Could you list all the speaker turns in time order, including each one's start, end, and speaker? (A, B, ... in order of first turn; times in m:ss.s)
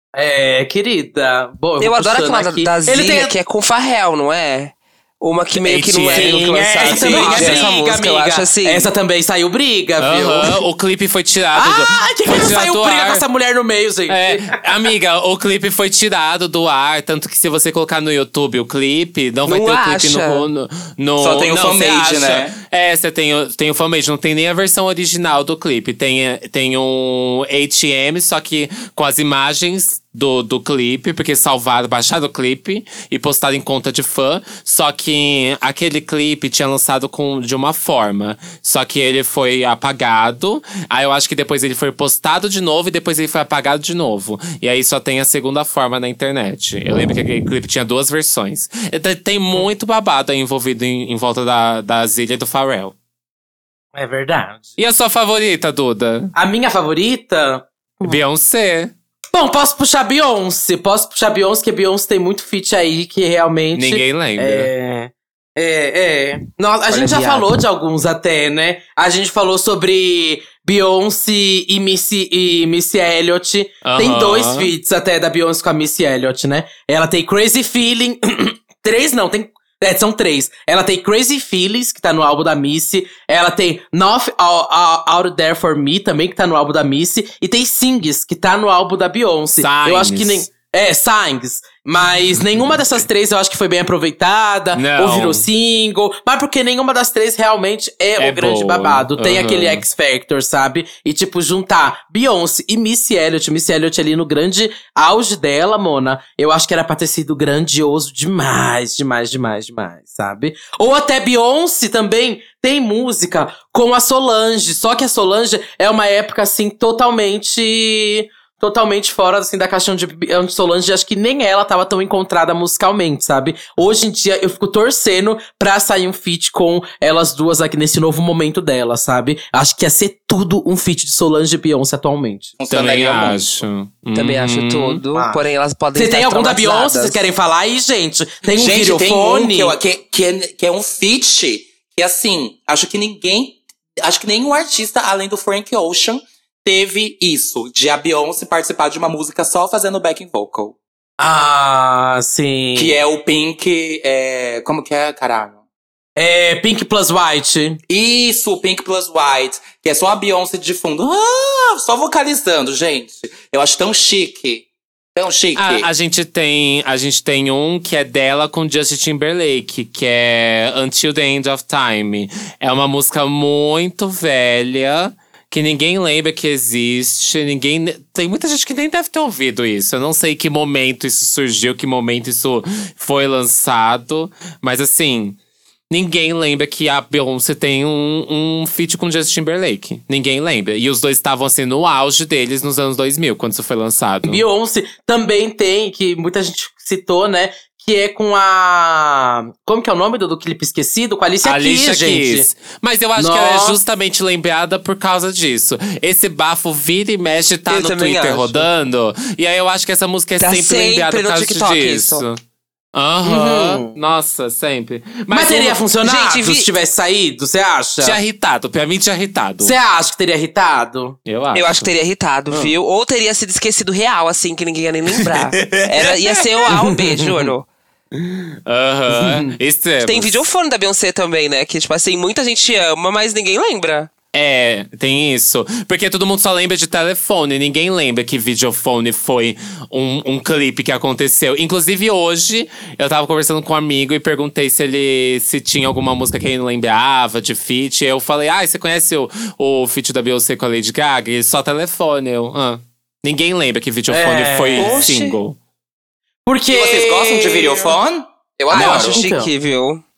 0:00.1-0:03.3 A
0:01.8-0:08.9 B
0:05.6-0:06.6 C
0:06.1-0:10.6 A
0:06.8-0:07.6 D
0:10.0-0:13.2 C
0:11.5-0:14.6 A
0:14.1-0:52.9 C
0:19.4-0:20.5 B
0:21.2-0:22.5 D
0:53.9-0:54.7 A
0:54.8-0:56.3 C
0:56.3-0:58.2 A
0:58.0-0:58.9 C
0:59.3-2:12.5 A
1:03.7-1:04.7 C
1:06.9-1:07.6 B
1:13.8-1:14.7 C
1:29.6-1:30.4 C
1:34.7-1:35.5 C
1:38.2-1:39.8 C
2:12.6-2:13.4 D
2:12.7-2:15.0 C
2:14.1-2:17.2 B
2:15.1-2:15.4 A
2:15.9-2:19.8 A
2:18.5-2:30.8 D
2:31.2-2:33.0 A
2:32.8-2:35.6 D
2:36.2-2:37.8 A
2:37.9-2:45.9 D
2:45.6-3:05.4 C
3:05.9-3:14.4 C
3:14.2-3:22.5 A
3:21.4-3:32.4 C
3:23.2-3:23.8 A
3:27.7-3:28.6 B
3:30.4-3:32.2 B
3:32.9-3:35.8 C
3:33.2-3:33.9 A
3:35.3-3:38.2 A
3:36.0-3:36.7 B
3:38.0-3:39.7 C
3:39.6-3:41.2 A
3:41.2-3:41.9 C
3:41.5-3:47.7 B
3:45.3-3:46.4 C
3:46.7-3:47.5 A
3:48.1-3:50.4 C
3:49.1-3:49.5 A
3:50.0-3:54.1 B
3:54.3-4:15.6 C
4:14.1-4:15.1 A
4:14.8-4:15.4 B
4:16.4-4:17.9 A
4:16.7-4:19.2 D
4:18.7-4:19.5 A
4:18.7-4:20.0 B